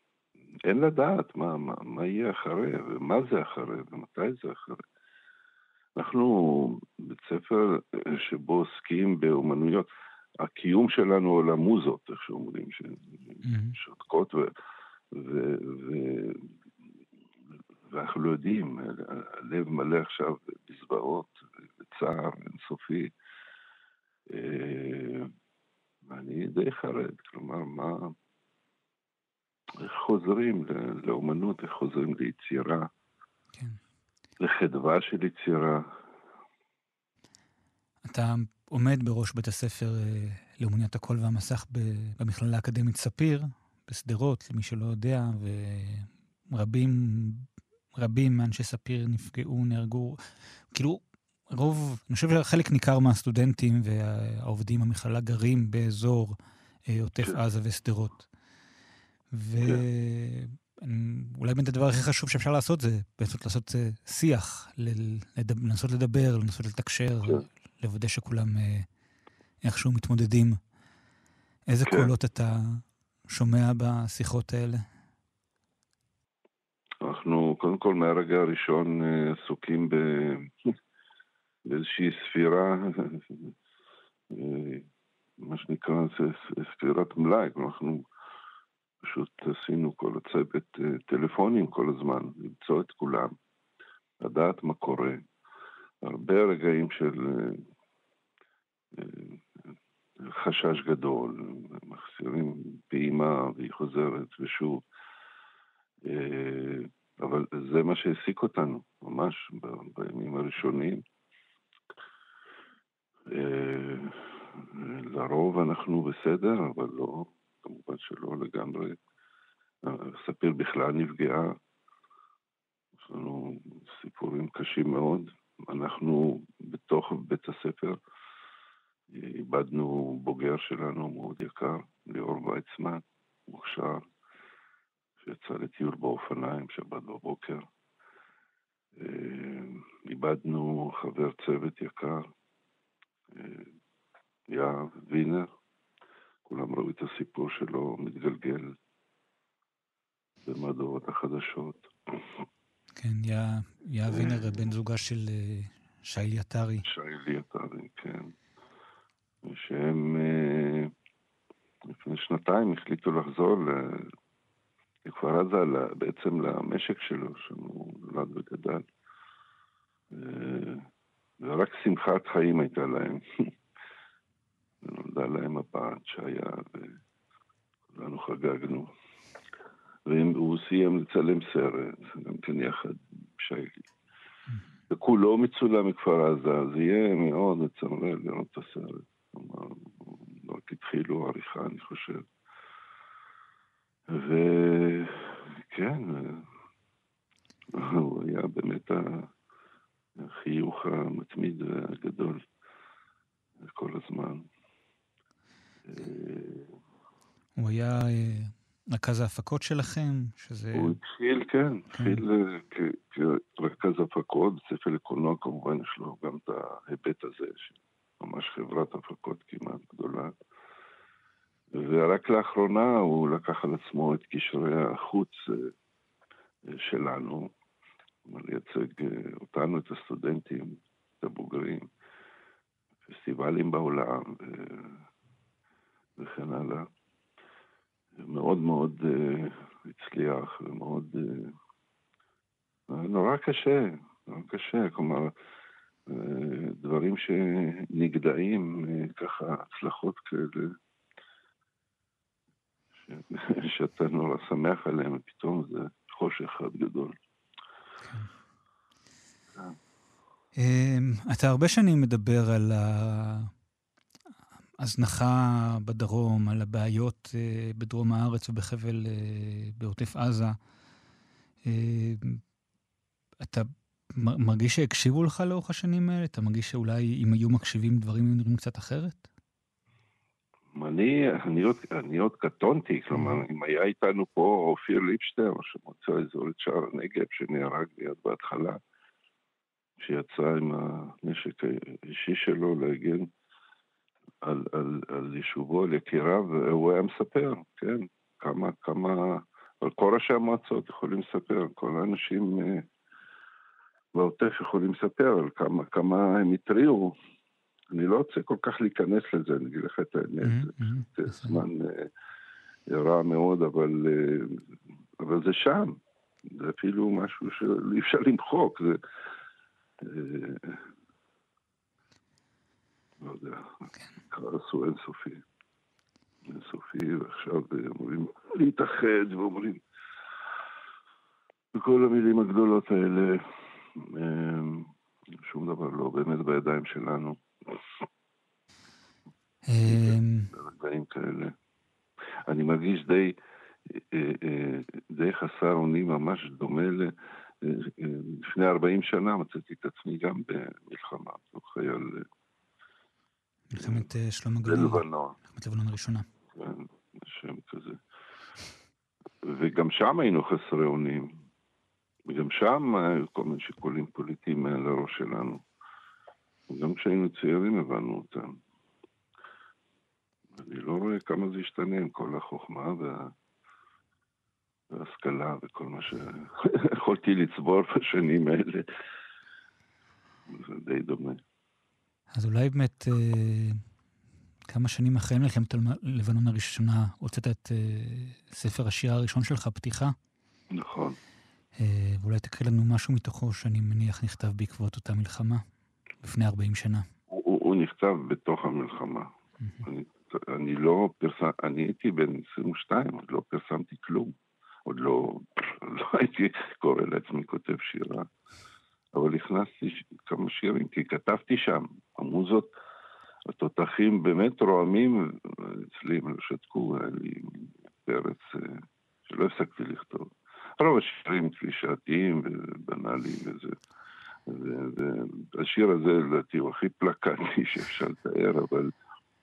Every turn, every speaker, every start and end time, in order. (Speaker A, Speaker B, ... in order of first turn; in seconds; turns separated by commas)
Speaker A: 0.7-4.8, Speaker A: 6.0-9.9, Speaker A: 10.4-14.5, Speaker B: 13.4-13.8, Speaker A: 15.1-16.5, Speaker A: 17.9-23.1, Speaker A: 24.3-25.3, Speaker A: 26.1-28.1, Speaker A: 29.8-32.9, Speaker B: 33.5-33.8, Speaker A: 34.4-35.8, Speaker B: 38.0-56.4, Speaker B: 56.9-58.3, Speaker B: 59.3-68.9, Speaker B: 69.6-70.6, Speaker B: 71.7-74.8, Speaker A: 71.9-72.1, Speaker A: 77.0-80.5, Speaker A: 81.7-83.5, Speaker A: 84.3-84.9, Speaker A: 85.4-88.1, Speaker A: 89.0-93.3, Speaker A: 94.2-95.2, Speaker A: 96.0-97.7, Speaker A: 98.9-99.4, Speaker A: 100.2-104.8, Speaker A: 106.1-111.0, Speaker A: 113.3-119.0, Speaker A: 119.8-121.5, Speaker A: 123.0-128.0, Speaker A: 129.1-134.0, Speaker A: 135.2-137.6, Speaker A: 139.0-142.2, Speaker A: 143.3-143.7, Speaker A: 144.5-145.5, Speaker A: 146.5-148.8, Speaker A: 150.4-151.9, Speaker B: 153.0-156.8, Speaker A: 154.1-154.7, Speaker A: 156.8-158.3, Speaker A: 159.4-160.9, Speaker A: 161.8-164.1, Speaker A: 165.1-168.8, Speaker A: 170.1-170.8, Speaker A: 171.4-173.2, Speaker A: 174.8-177.0, Speaker A: 177.9-178.9, Speaker A: 180.1-183.8, Speaker A: 184.9-192.2, Speaker A: 194.1-196.5, Speaker A: 197.7-199.3, Speaker A: 200.2-202.4, Speaker A: 203.6-204.4, Speaker A: 205.9-206.7, Speaker B: 207.6-211.0, Speaker A: 210.8-220.3, Speaker B: 211.9-212.2, Speaker A: 221.7-225.7, Speaker A: 226.7-227.5, Speaker A: 228.3-230.7, Speaker A: 231.2-231.9, Speaker A: 233.1-235.0, Speaker A: 236.2-236.8, Speaker A: 238.2-241.5, Speaker A: 242.9-245.3, Speaker A: 246.1-250.7, Speaker A: 253.0-257.1, Speaker B: 258.0-258.3, Speaker B: 260.6-263.5, Speaker B: 264.8-270.6, Speaker B: 271.6-272.4, Speaker B: 273.4-279.2, Speaker A: 280.7-288.8, Speaker B: 283.1-283.4, Speaker A: 290.0-293.3, Speaker A: 294.4-302.9, Speaker A: 304.1-307.1, Speaker A: 307.9-312.1, Speaker B: 310.4-311.6, Speaker A: 312.9-314.6, Speaker A: 315.2-316.0, Speaker A: 316.5-319.0, Speaker A: 320.0-320.8, Speaker A: 323.2-325.4, Speaker A: 326.5-329.8, Speaker A: 331.8-333.4, Speaker A: 333.9-334.9, Speaker A: 335.4-337.8, Speaker B: 339.7-340.5, Speaker A: 339.8-341.5, Speaker A: 342.5-343.3, Speaker A: 343.9-352.2, Speaker B: 353.7-356.2, Speaker A: 353.8-354.1, Speaker A: 354.6-355.4, Speaker A: 356.6-358.0, Speaker A: 359.4-361.3, Speaker A: 362.3-365.6, Speaker A: 366.7-368.5, Speaker A: 370.6-373.3, Speaker A: 374.9-378.9, Speaker A: 380.5-381.4, Speaker B: 382.3-383.8, Speaker B: 384.7-390.1, Speaker A: 390.7-391.2, Speaker B: 391.8-395.6, Speaker B: 396.2-397.1, Speaker A: 397.3-399.3, Speaker A: 399.8-404.3, Speaker A: 404.9-408.3, Speaker A: 409.1-412.7, Speaker A: 413.5-423.7, Speaker A: 424.5-428.9